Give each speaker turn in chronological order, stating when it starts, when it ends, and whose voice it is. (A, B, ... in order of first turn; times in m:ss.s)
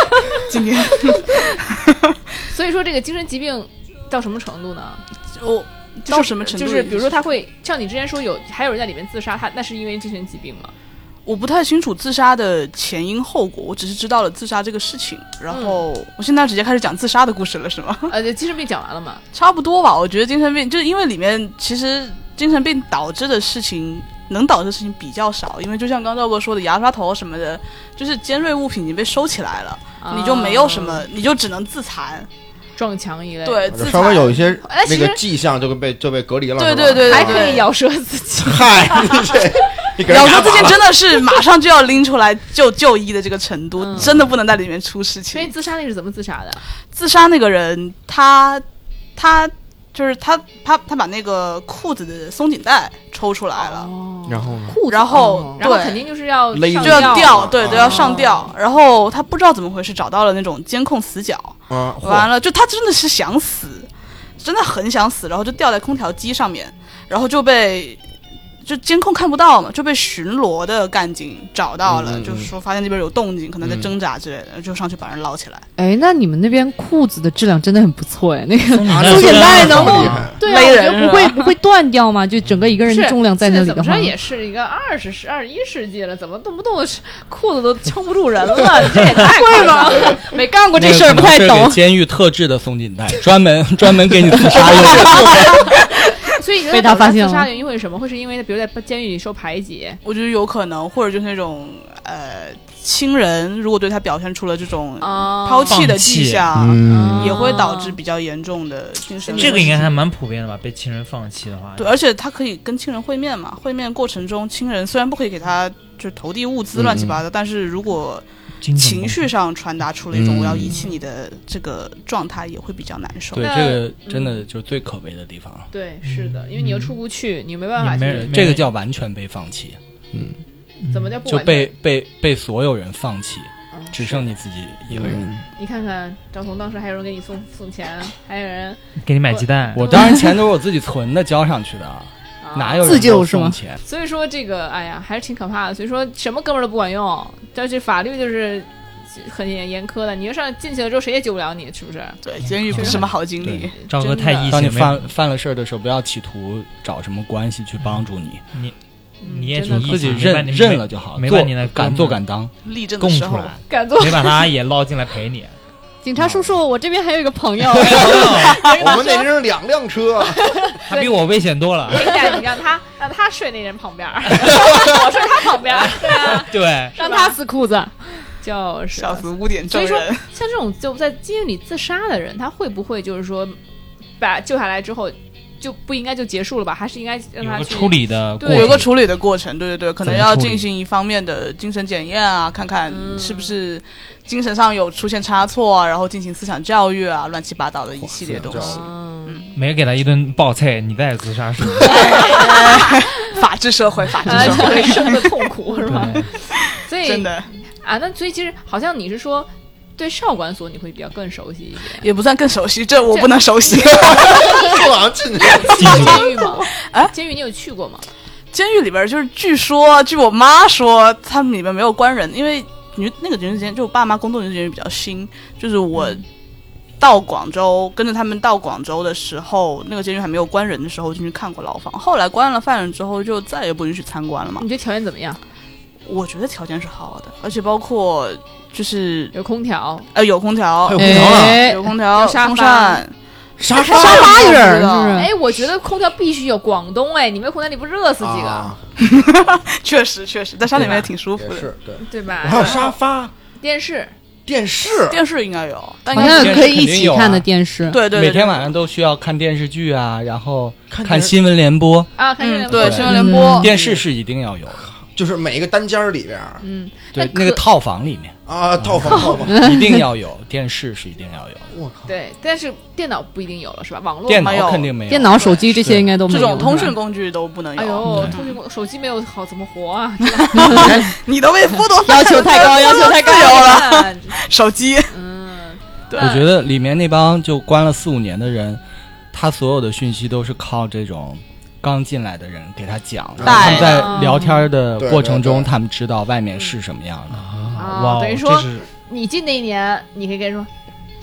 0:00.3-0:01.9 A
0:02.5-0:05.0 B
0:05.4-0:07.1 A
0:06.0-0:10.7 B
0:11.2-0:18.1 A
0:15.5-0:15.8 B
0:18.1-0:19.2 B
0:19.3-0:32.3 A
0:30.0-0:31.0 B
0:32.8-0:35.2 B
0:33.4-0:34.4 A
0:33.7-0:37.6 C
0:36.6-0:37.7 A
0:37.0-0:39.5 B
0:38.4-0:40.9 C
0:40.0-0:45.5 A
0:43.8-0:44.1 B
0:45.3-0:46.6 B
0:46.9-0:48.6 A
0:49.2-0:53.9 A
0:53.6-0:54.5 B
0:54.3-0:54.8 C
0:54.7-0:55.7 D
0:54.9-0:56.1 A
0:55.1-0:58.5 B
0:56.5-0:58.1 C
0:56.8-1:08.0 A
1:01.7-1:02.3 C
1:08.6-1:15.6 A
1:11.8-1:12.5 C
1:13.6-1:13.9 C
1:15.8-1:24.1 D
1:18.7-1:20.4 E
1:18.9-1:20.4 C
1:19.5-1:19.8 A
1:20.4-1:21.5 A
1:20.4-1:20.8 B
1:22.9-1:30.3 B
1:29.2-1:31.8 D
1:30.7-1:35.6 F
1:34.5-1:35.6 C
1:36.3-1:40.0 B
1:36.7-1:37.5 D
1:40.0-1:50.0 A
1:45.0-1:45.8 B
1:45.7-1:46.7 E
1:46.5-1:47.3 C
1:46.9-1:47.6 D
1:47.1-1:48.0 B
1:49.2-1:49.8 B
1:49.4-1:52.0 E
1:51.8-2:03.5 A
1:56.7-1:57.2 C
1:58.6-1:59.3 E
2:00.1-2:00.8 C
2:03.3-2:05.7 F
2:03.4-2:04.4 B
2:05.7-2:08.4 B
2:06.0-2:07.0 E
2:07.8-2:08.7 E
2:08.1-2:09.8 F
2:10.8-2:11.2 E
2:10.9-2:11.7 B
2:11.3-2:15.3 F
2:13.7-2:14.3 B
2:14.9-2:15.4 C
2:15.6-2:20.1 B
2:19.0-2:19.9 E
2:19.7-2:23.8 F
2:22.4-2:23.1 B
2:22.8-2:23.6 D
2:23.8-2:33.1 B
2:32.2-2:33.7 A
2:32.4-2:35.1 E
2:33.8-2:34.6 B
2:34.5-2:38.4 F
2:38.5-2:42.2 E
2:39.2-2:40.1 B
2:39.6-2:42.5 F
2:42.6-2:43.6 A
2:43.0-2:45.6 E
2:43.7-2:44.5 B
2:46.0-2:48.4 D
2:46.2-2:46.5 C
2:47.7-2:48.6 E
2:47.9-2:50.6 C
2:48.3-2:49.3 B
2:50.4-2:51.3 B
2:50.9-2:52.2 E
2:51.9-2:57.4 B
2:55.9-2:57.0 E
2:56.9-2:57.9 D
2:58.1-3:03.6 B
2:58.9-3:00.3 A
3:04.2-3:08.9 B
3:07.4-3:08.9 E
3:08.4-3:19.5 A
3:10.0-3:10.7 E
3:12.9-3:13.6 B
3:18.2-3:18.8 C
3:18.6-3:19.3 B
3:19.6-3:22.4 E
3:21.8-3:22.9 B
3:21.8-3:25.4 A
3:24.2-3:32.1 B
3:25.9-3:26.3 E
3:27.0-3:27.5 A
3:32.0-3:34.9 A
3:33.1-3:34.8 B
3:33.8-3:36.2 C
3:35.4-3:38.1 B
3:35.7-3:37.1 A
3:35.8-3:36.1 F
3:38.5-3:46.2 A
3:47.0-3:54.6 A
3:54.6-3:55.4 B
3:56.0-3:59.3 A
3:59.3-4:00.1 B
4:00.1-4:03.1 A
4:00.8-4:01.7 C
4:01.0-4:01.9 D
4:01.9-4:03.0 B
4:03.6-4:04.4 C
4:03.8-4:05.2 A
4:03.8-4:04.6 B
4:03.9-4:05.3 D
4:05.1-4:08.7 B
4:08.2-4:08.8 C
4:09.0-4:11.7 A
4:10.7-4:11.1 B
4:11.3-4:13.3 C
4:12.0-4:13.0 B
4:12.4-4:12.8 A
4:13.6-4:14.1 B
4:14.4-4:15.2 C
4:14.9-4:16.7 A
4:16.1-4:18.0 D
4:16.1-4:17.4 F
4:17.9-4:18.7 A
4:18.1-4:22.1 F
4:20.9-4:21.3 C
4:22.2-4:23.6 B
4:22.4-4:23.7 A
4:22.7-4:24.8 F
4:23.0-4:23.7 D
4:25.1-4:26.6 C
4:26.6-4:27.6 B
4:27.1-4:31.7 F
4:28.5-4:29.6 C
4:29.3-4:30.0 D
4:31.7-4:32.0 C
4:32.0-4:34.7 B
4:34.3-4:36.2 F
4:34.4-4:34.9 A
4:35.1-4:36.9 D
4:36.3-4:38.6 A
4:37.8-4:40.9 B
4:38.1-4:38.3 E
4:40.3-4:45.1 A
4:40.6-4:41.0 D
4:42.0-4:43.8 D
4:42.5-4:44.4 B
4:45.1-4:45.8 B
4:46.1-4:46.4 A
4:46.2-4:48.8 F
4:49.3-4:57.4 F
4:53.4-4:53.8 C
4:53.4-4:54.1 A
4:53.8-4:54.6 B
4:55.0-4:55.7 C
4:57.3-4:58.9 E
4:57.8-5:00.7 B